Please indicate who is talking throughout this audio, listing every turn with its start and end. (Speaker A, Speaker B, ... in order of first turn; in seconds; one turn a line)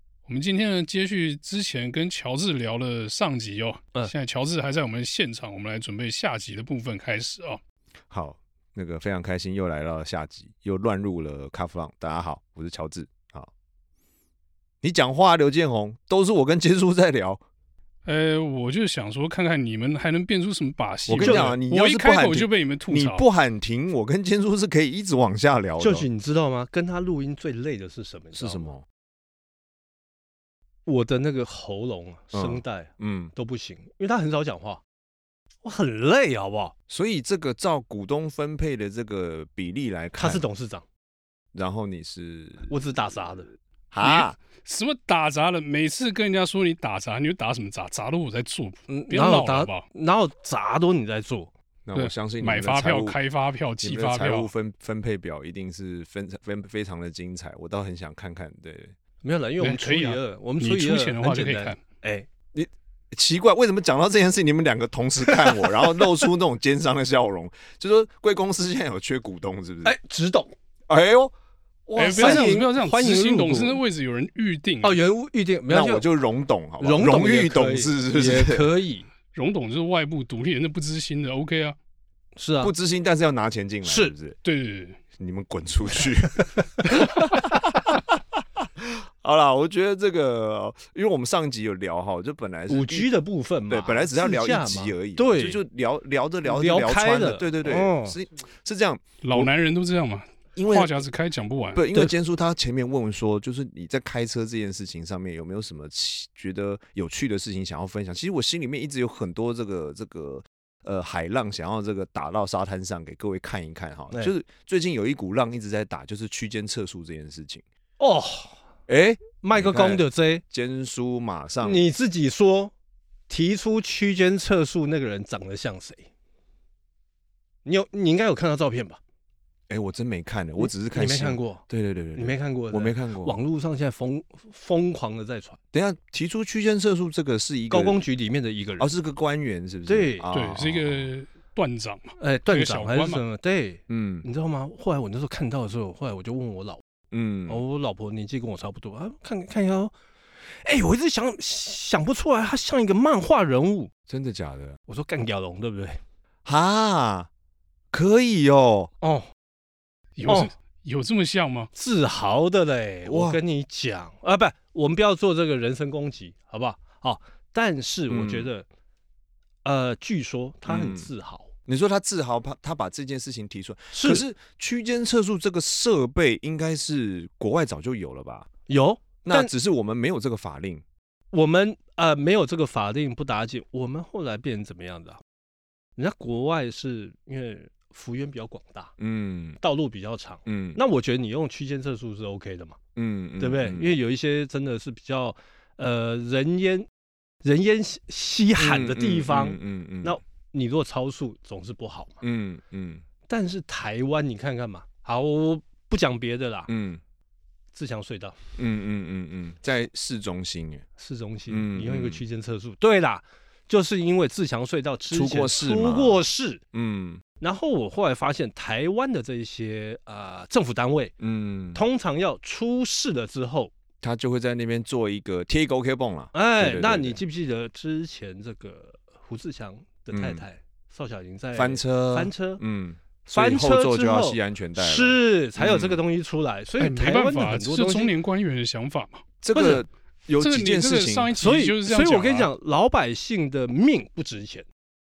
Speaker A: 0.3-7.6
Speaker B: 8.1-13.5
Speaker B: 14.8-17.4
Speaker A: 18.0-23.2
Speaker B: 21.1-26.1
Speaker C: 21.2-21.5
Speaker C: 25.8-28.7
Speaker B: 28.3-28.8
Speaker C: 30.9-34.8
Speaker B: 32.3-33.3
Speaker C: 35.6-36.7
Speaker B: 36.9-40.4
Speaker C: 40.1-40.8
Speaker B: 41.5-42.7
Speaker C: 42.7-43.5
Speaker B: 43.9-44.4
Speaker A: 44.0-49.8
Speaker C: 48.9-51.5
Speaker B: 51.9-53.1
Speaker A: 51.9-54.5
Speaker B: 53.8-58.9
Speaker C: 59.2-62.3
Speaker A: 59.6-61.8
Speaker B: 62.5-70.0
Speaker C: 65.3-65.7
Speaker C: 69.8-70.5
Speaker B: 70.9-71.3
Speaker B: 71.8-72.6
Speaker A: 72.0-75.0
Speaker C: 72.1-73.8
Speaker C: 74.8-76.0
Speaker B: 75.7-78.7
Speaker C: 76.8-79.1
Speaker A: 79.3-81.8
Speaker C: 82.3-82.7
Speaker B: 82.6-84.4
Speaker C: 83.8-84.1
Speaker A: 84.4-85.0
Speaker B: 85.2-93.1
Speaker C: 92.7-95.6
Speaker B: 93.7-99.5
Speaker C: 96.4-98.1
Speaker A: 99.2-101.9
Speaker B: 100.5-100.9
Speaker B: 101.7-117.6
Speaker C: 118.0-118.6
Speaker B: 118.9-121.8
Speaker C: 119.4-120.4
Speaker C: 121.6-122.7
Speaker C: 123.3-126.1
Speaker C: 127.6-129.0
Speaker B: 129.7-133.4
Speaker C: 130.6-131.6
Speaker C: 132.1-135.6
Speaker B: 135.7-138.0
Speaker C: 137.7-138.9
Speaker B: 138.8-141.1
Speaker C: 139.8-140.3
Speaker A: 140.3-143.2
Speaker C: 142.2-146.8
Speaker B: 143.9-144.2
Speaker B: 147.1-147.6
Speaker C: 147.5-149.9
Speaker C: 150.4-153.9
Speaker B: 154.1-154.8
Speaker C: 154.9-156.0
Speaker B: 156.4-157.3
Speaker B: 157.9-158.9
Speaker C: 159.0-159.3
Speaker A: 160.2-161.7
Speaker C: 160.2-160.5
Speaker C: 161.7-168.7
Speaker B: 163.1-163.4
Speaker B: 168.1-168.5
Speaker C: 169.6-171.5
Speaker B: 170.7-171.1
Speaker B: 171.7-178.5
Speaker C: 173.9-174.2
Speaker C: 178.7-179.5
Speaker B: 179.2-180.8
Speaker C: 181.3-185.2
Speaker C: 186.0-188.9
Speaker B: 189.0-189.6
Speaker C: 189.6-192.8
Speaker B: 190.4-190.8
Speaker B: 192.9-193.9
Speaker C: 193.4-196.9
Speaker C: 197.4-202.2
Speaker B: 198.6-200.2
Speaker B: 202.2-203.0
Speaker C: 203.3-206.7
Speaker B: 206.7-207.0
Speaker C: 207.7-208.3
Speaker B: 208.6-210.8
Speaker C: 211.0-216.6
Speaker B: 211.5-212.2
Speaker B: 215.1-216.2
Speaker B: 216.7-217.2
Speaker C: 217.4-221.1
Speaker B: 221.2-221.8
Speaker C: 221.7-223.7
Speaker B: 224.0-227.2
Speaker C: 226.3-232.6
Speaker B: 230.1-230.4
Speaker B: 231.5-236.0
Speaker C: 233.3-238.1
Speaker A: 236.8-239.2
Speaker B: 239.4-241.3
Speaker C: 239.5-239.8
Speaker A: 240.4-242.5
Speaker C: 241.4-244.7